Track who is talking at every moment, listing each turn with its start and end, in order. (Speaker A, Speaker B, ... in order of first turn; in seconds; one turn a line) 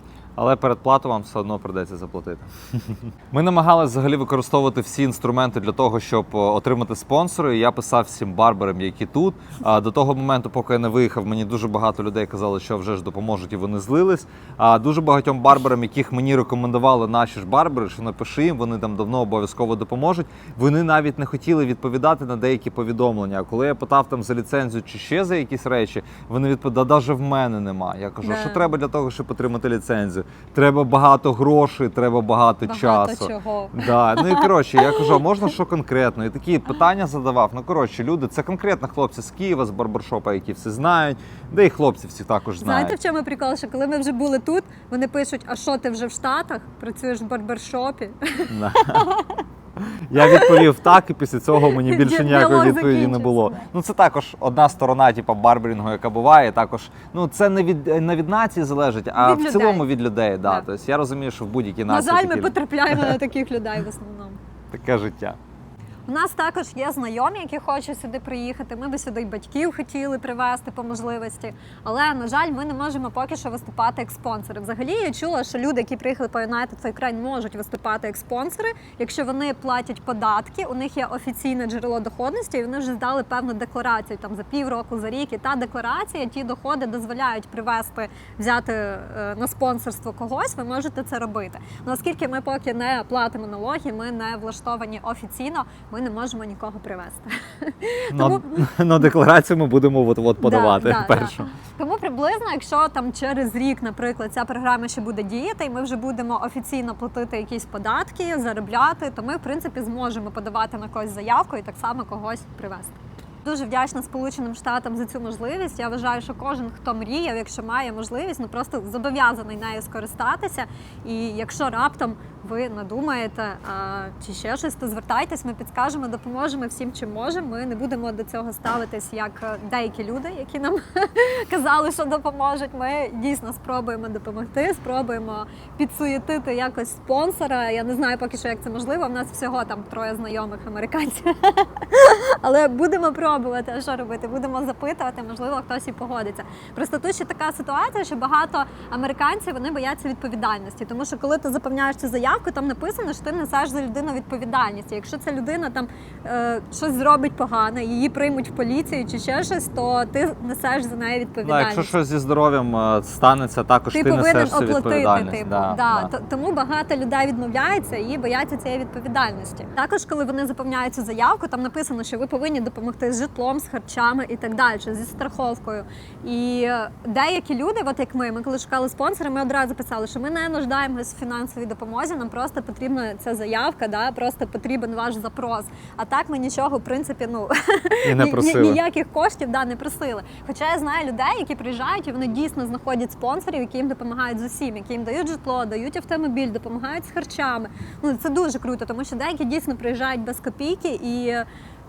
Speaker A: 0.4-43.0
Speaker B: 28.2-28.6
Speaker B: 32.6-35.2
Speaker B: 42.6-49.5
Speaker A: 48.5-49.1
Speaker A: 50.1-63.2
Speaker B: 50.2-50.7
Speaker B: 51.7-53.6
Speaker B: 59.1-59.9
Speaker B: 61.9-64.4
Speaker A: 64.7-65.4
Speaker B: 66.1-99.1
Speaker A: 98.1-101.5
Speaker B: 100.4-161.9
Speaker A: 161.4-166.1
Speaker B: 163.9-201.5
Speaker A: 188.1-188.8